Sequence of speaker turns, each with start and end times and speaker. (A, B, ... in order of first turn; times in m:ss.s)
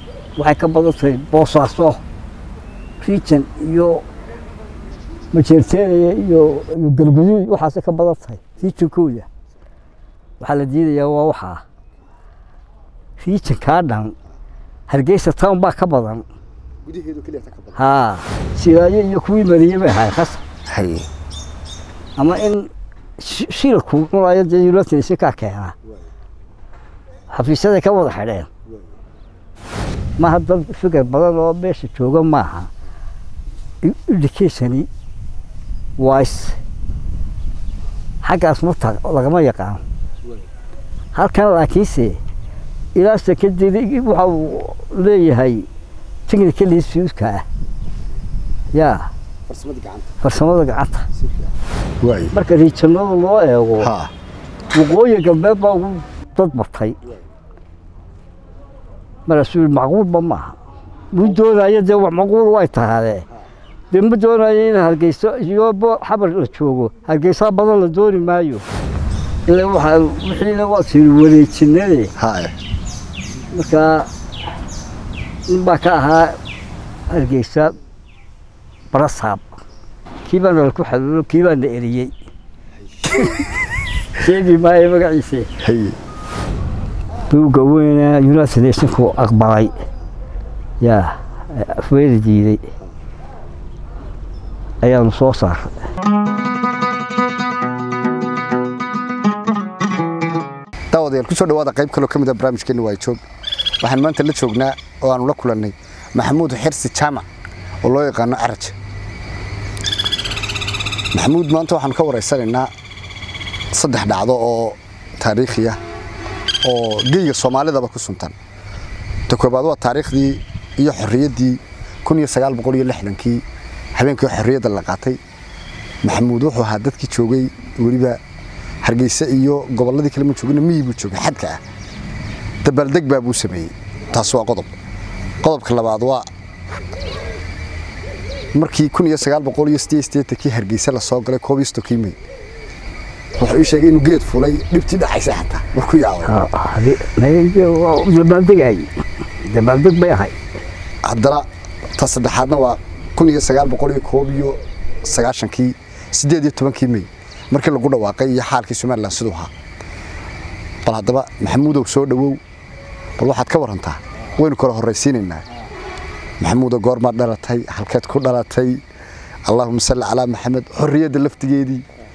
0:00.4-0:02.0 A
0:03.0-0:04.0 A
0:05.3-0:09.3 A
0:10.4-0:11.6 A
0:13.2-0:14.2 A
0:14.9-0:16.2 A
0:16.8-0:17.8 B
0:17.8-0:20.4 A
0:20.7-0:21.1 B
0:22.2-0:25.8 A
0:27.3-0:28.5 A
0:30.2-0:32.7 A
0:33.8-0:34.9 A
0:36.0-0:36.6 A
0:38.2-0:39.8 A
0:41.1-0:42.2 A
0:43.0-0:45.7 A
0:46.3-0:47.4 A
0:48.7-0:49.1 A
0:49.5-0:50.2 B
0:50.2-0:51.1 A
0:51.2-0:52.4 B
0:52.3-0:53.9 A
0:53.8-0:54.1 B
0:54.7-0:57.1 A
0:59.3-1:00.6 A
1:01.1-1:03.3 A
1:03.9-1:08.6 A
1:09.5-1:12.1 A
1:12.2-1:12.6 B
1:13.5-1:14.1 A
1:15.5-1:16.4 A
1:17.1-1:17.7 A
1:18.9-1:19.5 A
1:20.2-1:22.1 A
1:23.0-1:23.3 B
1:23.1-1:23.4 A
1:24.1-1:25.5 A
1:25.6-1:26.0 B
1:27.3-1:29.7 A
1:30.8-1:32.7 A
1:34.8-1:35.8 A
1:40.9-1:43.2 B
1:43.8-1:47.3 B
1:47.8-1:48.7 B
1:51.1-1:52.7 B
1:53.7-1:55.8 B
1:56.6-1:58.3 B
1:59.3-2:03.4 B
2:03.9-2:05.2 B
2:06.0-2:08.2 B
2:08.8-2:11.6 B
2:12.6-2:14.8 B
2:15.4-2:16.3 B
2:18.5-2:22.2 B
2:23.4-2:26.5 B
2:26.2-2:28.9 A
2:29.4-2:30.4 A
2:31.0-2:39.5 B
2:40.8-2:42.4 B
2:43.2-2:45.5 B
2:46.4-2:48.8 B
2:49.5-2:51.8 B